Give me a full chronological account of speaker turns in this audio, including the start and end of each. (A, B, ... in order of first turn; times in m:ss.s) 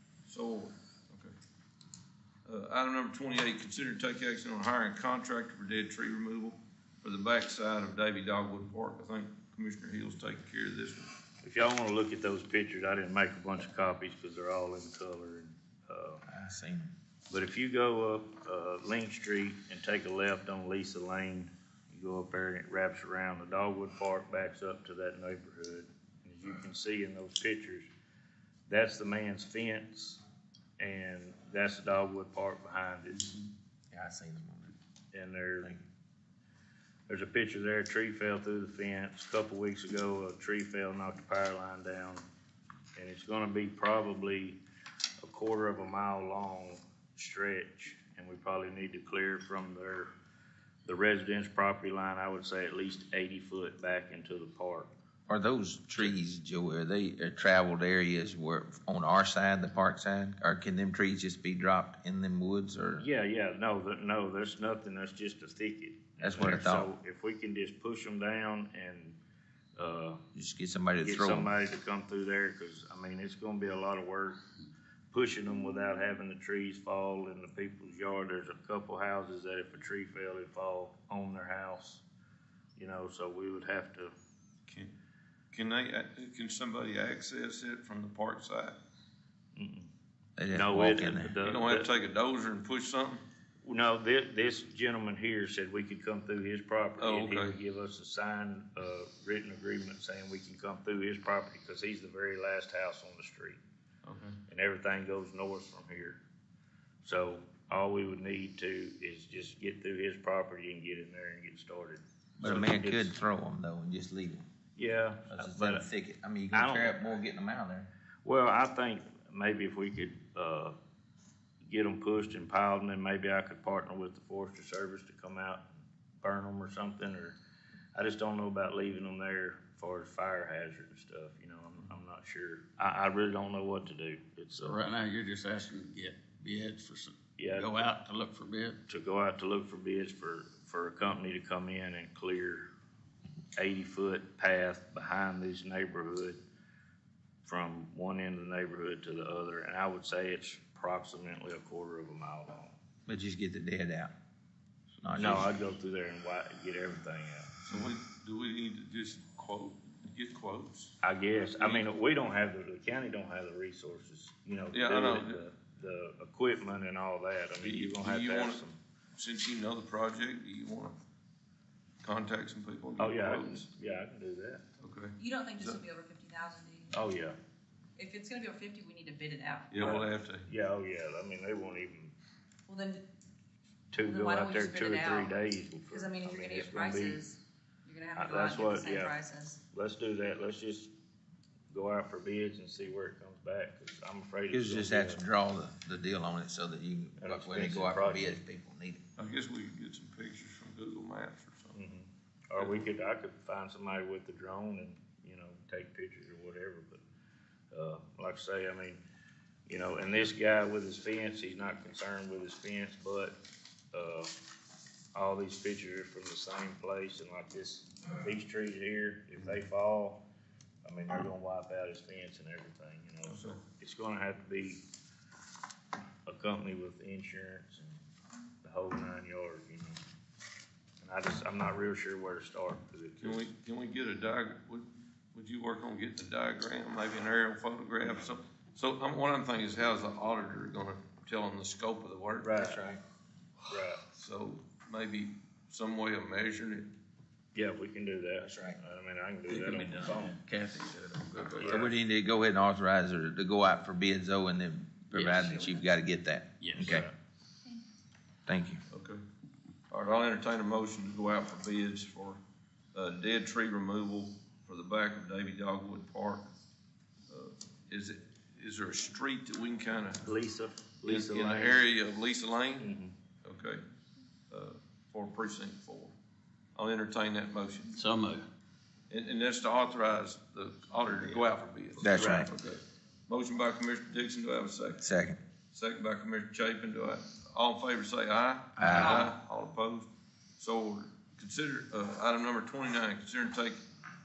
0:00.2-0:01.3 A
0:02.4-0:11.1 A
0:11.4-0:16.2 B
0:16.3-0:16.9 C
0:17.3-0:27.9 B
0:28.7-0:30.2 B
0:30.8-0:33.4 B
0:33.9-0:34.7 C
0:35.1-0:35.7 B
0:37.1-0:42.2 B
0:43.0-0:44.6 B
0:45.2-0:50.1 B
0:50.8-0:54.9 B
0:55.3-1:03.1 C
1:03.0-1:09.2 B
1:06.2-1:06.9 C
1:09.8-1:10.2 B
1:10.3-1:11.5 C
1:11.0-1:14.4 B
1:15.1-1:22.0 B
1:22.8-1:24.1 B
1:25.5-1:28.8 A
1:29.5-1:29.9 B
1:30.4-1:31.4 C
1:30.5-1:31.9 B
1:31.4-1:33.2 A
1:33.6-1:43.6 B
1:37.0-1:37.6 A
1:44.0-1:44.4 A
1:44.5-1:46.2 B
1:47.0-1:53.1 B
1:52.4-1:54.4 C
1:54.8-1:55.8 B
1:55.3-1:57.9 C
1:56.5-1:57.0 B
1:58.2-2:00.7 B
2:01.6-2:05.7 B
2:06.2-2:07.4 B
2:07.9-2:14.8 B
2:14.6-2:18.8 D
2:17.4-2:17.7 B
2:18.9-2:22.7 B
2:23.6-2:26.4 B
2:27.4-2:32.8 B
2:33.1-2:34.1 C
2:35.0-2:35.6 C
2:35.1-2:37.5 B
2:37.6-2:41.8 A
2:41.0-2:48.8 B
2:44.7-2:45.5 A
2:47.6-2:48.6 A
2:49.2-2:51.0 A
2:52.0-2:53.7 A
2:53.0-2:54.6 B
2:54.8-2:55.8 A
2:55.2-2:57.0 E
2:56.9-2:57.4 B
2:58.0-3:00.0 E
2:59.7-3:00.5 A
2:59.8-3:02.1 B
3:02.7-3:03.0 E
3:03.9-3:07.2 B
3:04.0-3:05.3 E
3:05.9-3:09.6 E
3:08.2-3:09.2 B
3:09.7-3:10.9 B
3:11.7-3:15.2 B
3:14.5-3:19.0 C
3:17.2-3:18.4 B
3:19.2-3:21.8 A
3:21.7-3:27.0 B
3:27.7-3:29.0 B
3:29.7-3:33.4 B
3:33.9-3:34.3 B
3:35.1-3:40.2 B
3:40.8-3:44.8 B
3:43.2-3:43.6 A
3:46.2-3:48.0 B
3:48.6-3:50.0 B
3:51.0-3:53.4 B
3:53.2-4:02.5 A
4:02.4-4:02.8 B
4:02.5-4:03.0 C
4:03.7-4:04.0 B
4:04.1-4:06.9 A
4:07.5-4:10.4 B
4:08.4-4:08.8 C
4:09.5-4:11.6 D
4:11.2-4:11.8 A
4:11.6-4:11.9 B
4:11.6-4:17.1 C
4:16.6-4:16.9 D
4:16.8-4:17.1 B
4:18.5-4:18.8 C
4:18.9-4:19.2 A
4:19.9-4:22.4 A
4:22.9-4:26.5 A
4:27.3-4:30.2 A
4:30.2-4:31.8 B
4:31.0-4:32.9 A
4:32.8-4:33.1 B
4:33.4-4:33.8 A
4:34.5-4:36.1 A
4:36.8-4:38.0 A
4:38.0-4:38.4 D
4:39.1-4:45.0 A
4:42.0-4:42.5 C
4:42.2-4:42.5 B
4:45.0-4:45.4 C
4:45.7-4:53.8 A
4:48.8-4:49.3 C
4:48.9-4:49.3 E